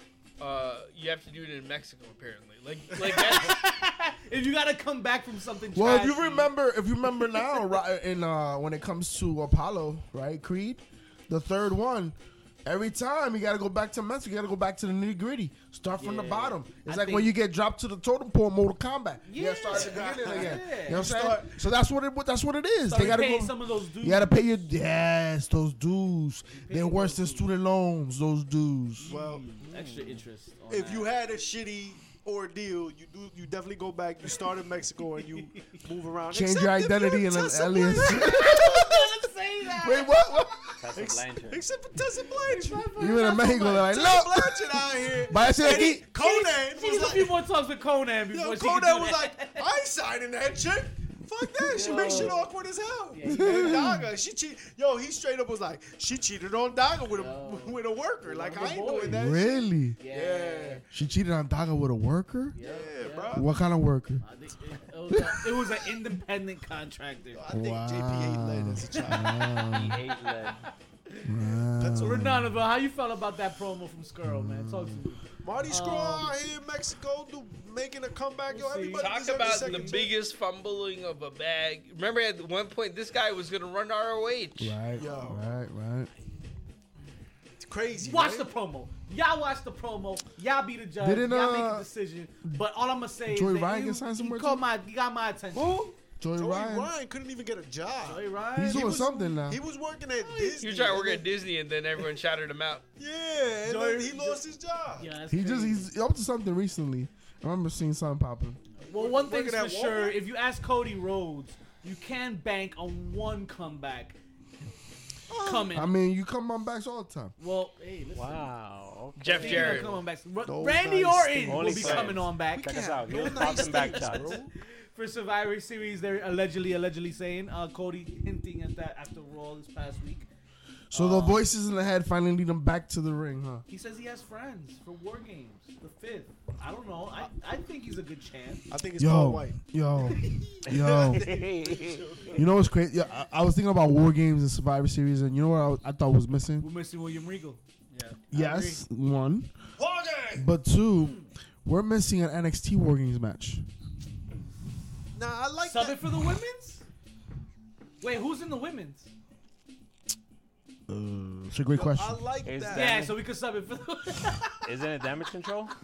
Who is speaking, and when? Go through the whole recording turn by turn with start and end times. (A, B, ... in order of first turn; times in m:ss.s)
0:00.4-0:03.6 A
0:03.0-0:06.5 B
0:05.8-0:29.1 C
0:16.0-0:17.3 B
0:19.3-0:21.2 B
0:19.7-0:21.6 D
0:22.8-0:24.5 B
0:26.5-0:27.5 B
0:29.0-0:31.1 B
0:29.0-0:29.5 D
0:29.6-0:30.2 E
0:30.7-0:38.8 D
0:36.3-0:39.1 C
0:37.9-0:40.4 B
0:39.8-0:40.8 C
0:40.8-0:41.6 E
0:40.9-0:42.9 D
0:42.4-0:44.0 B
0:43.0-0:46.0 C
0:43.8-0:47.4 D
0:45.6-0:49.7 B
0:48.3-1:00.8 D
0:51.6-0:52.3 C
0:51.7-0:52.5 B
0:53.1-0:54.0 B
0:53.2-0:54.1 C
0:57.1-0:59.3 B
0:59.1-1:00.0 C
1:00.0-1:00.9 B
1:00.9-1:02.6 C
1:02.5-1:03.4 B
1:02.6-1:03.5 D
1:03.3-1:04.2 C
1:04.2-1:07.5 B
1:05.1-1:05.5 C
1:07.3-1:09.6 D
1:07.5-1:10.0 C
1:08.9-1:09.5 B
1:09.7-1:10.7 E
1:10.1-1:11.3 B
1:11.2-1:12.6 C
1:11.7-1:12.3 D
1:12.0-1:16.4 B
1:14.2-1:15.0 C
1:15.4-1:20.1 D
1:18.5-1:20.1 B
1:19.0-1:24.8 A
1:24.6-1:26.1 C
1:25.0-1:25.5 D
1:25.0-1:25.3 B
1:27.6-1:28.5 D
1:28.0-1:35.9 B
1:31.0-1:31.9 C
1:33.3-1:34.6 C
1:35.6-1:41.3 D
1:36.2-1:36.9 C
1:38.0-1:39.2 B
1:38.6-1:39.6 C
1:40.2-1:40.6 B
1:40.6-1:42.8 A
1:43.0-1:45.1 D
1:43.6-1:44.4 B
1:45.0-1:45.9 B
1:45.3-1:48.6 C
1:48.8-1:54.2 B
1:48.9-1:50.2 D
1:55.3-1:55.9 B
1:55.4-1:55.7 D
1:55.7-1:57.3 C
1:57.4-1:58.5 B
1:58.2-2:00.0 E
1:59.2-2:00.0 A
1:59.3-2:10.3 B
2:00.4-2:04.5 D
2:01.5-2:04.4 E
2:10.9-2:13.6 C
2:10.9-2:11.4 B
2:13.7-2:18.7 B
2:18.7-2:22.7 D
2:19.0-2:21.4 C
2:20.7-2:22.2 E
2:22.3-2:26.7 C
2:26.6-2:27.6 B
2:27.9-2:28.2 A
2:28.3-2:28.8 B
2:28.3-2:29.5 C
2:29.8-2:30.5 D
2:30.4-2:33.6 C
2:31.0-2:31.3 B
2:35.1-2:36.0 D
2:35.6-2:36.8 B
2:38.0-2:39.1 B
2:40.9-2:42.2 C
2:41.7-2:43.1 D
2:42.4-2:43.2 E
2:42.7-2:44.7 B
2:44.6-2:45.8 E